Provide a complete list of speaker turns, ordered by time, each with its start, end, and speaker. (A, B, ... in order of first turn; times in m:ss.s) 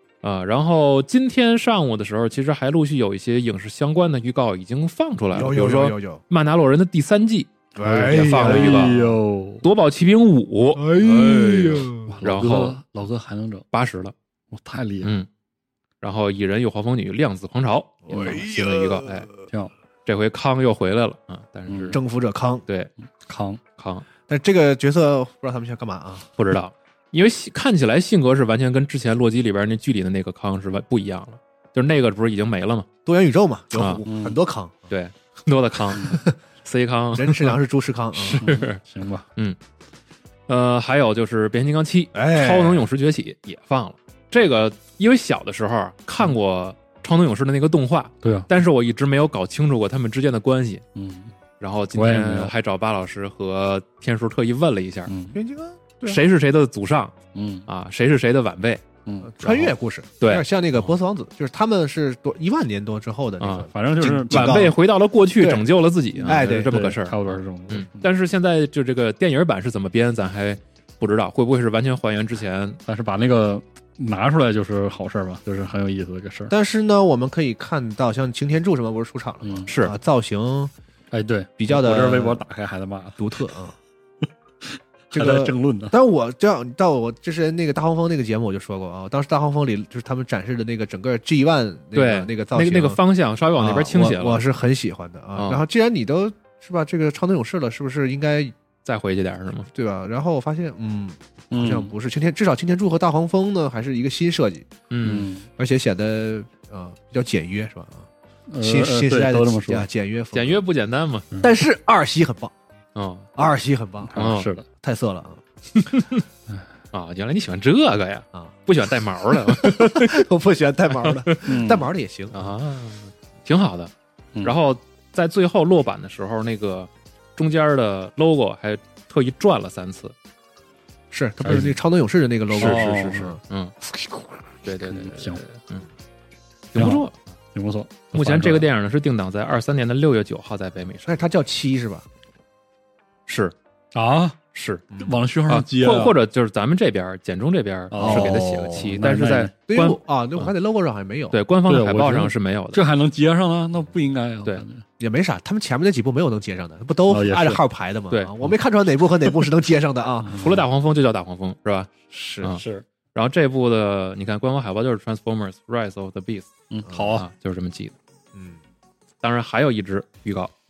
0:00.2-0:09.0 A
0:05.3-0:06.2 B
0:07.8-0:09.2 B
0:07.8-0:09.6 C
0:09.6-0:12.8 A
0:10.8-0:12.2 B
0:12.0-0:13.6 C
0:13.7-0:14.1 A
0:14.5-0:15.1 C
0:15.0-0:15.3 A
0:16.0-0:19.3 A
0:18.0-0:19.1 B
0:18.1-0:18.4 C
0:20.0-0:22.0 A
0:21.7-0:22.0 C
0:21.9-0:22.6 B
0:23.2-0:23.6 C
0:23.8-0:24.1 A
0:24.3-0:26.2 B
0:26.4-0:32.9 A
0:33.0-0:34.9 B
0:33.7-0:34.0 A
0:34.0-0:34.4 C
0:34.9-0:37.6 A
0:36.0-0:36.3 B
0:37.2-0:38.4 B
0:38.2-0:38.8 A
0:38.3-0:39.2 C
0:40.5-0:50.8 A
0:42.1-0:42.9 B
0:48.2-0:48.5 C
0:50.9-0:51.3 C
0:51.6-0:55.1 A
0:51.9-0:52.5 C
0:55.1-0:55.4 C
0:55.3-0:56.2 B
0:56.0-0:57.1 A
0:57.3-0:57.7 C
0:57.7-0:58.8 A
0:59.0-0:59.6 C
0:59.2-1:04.8 B
0:59.5-1:00.4 A
1:03.4-1:03.7 A
1:03.7-1:04.7 C
1:04.3-1:12.8 A
1:05.4-1:05.6 B
1:06.2-1:06.8 B
1:06.2-1:08.1 C
1:12.8-1:16.5 C
1:16.5-1:20.7 B
1:19.4-1:19.7 C
1:19.7-1:19.9 A
1:21.1-1:23.4 C
1:21.6-1:22.4 B
1:23.2-1:23.7 B
1:24.6-1:25.9 C
1:25.1-1:33.0 B
1:31.9-1:34.4 A
1:33.6-1:38.5 B
1:35.4-1:35.6 A
1:38.8-1:39.7 A
1:39.7-1:44.7 B
1:41.5-1:41.9 C
1:44.9-1:45.3 A
1:45.0-1:45.4 C
1:45.6-1:48.1 B
1:48.5-1:49.9 C
1:48.6-1:50.6 B
1:50.3-1:51.3 A
1:51.4-1:52.5 B
1:52.9-1:53.3 A
1:53.4-1:54.2 B
1:54.1-1:54.6 C
1:54.2-1:54.5 A
1:54.8-1:55.4 B
1:55.7-1:56.2 A
1:56.9-2:00.2 A
1:59.4-2:02.3 B
2:01.4-2:01.9 C
2:02.3-2:10.1 A
2:11.1-2:13.4 B
2:11.4-2:11.8 C
2:12.5-2:13.4 C
2:13.5-2:13.7 A
2:14.6-2:15.8 A
2:14.9-2:15.4 C
2:16.7-2:17.2 A
2:16.7-2:18.7 C
2:18.1-2:21.3 A
2:21.0-2:22.0 B
2:23.3-2:23.5 A
2:23.9-2:24.4 C
2:24.5-2:24.8 A
2:25.0-2:26.2 C
2:25.5-2:30.5 A
2:27.9-2:29.5 C
2:28.0-2:28.4 B
2:29.7-2:31.4 B
2:31.3-2:32.8 A
2:31.6-2:34.8 C
2:35.0-2:40.4 B
2:37.1-2:37.6 C
2:40.2-2:40.6 C
2:40.3-2:46.5 A
2:42.1-2:42.5 B
2:42.5-2:42.8 C
2:46.7-2:47.2 C
2:46.9-2:47.2 B
2:47.1-2:47.9 A
2:48.3-2:48.6 B
2:49.2-2:50.5 A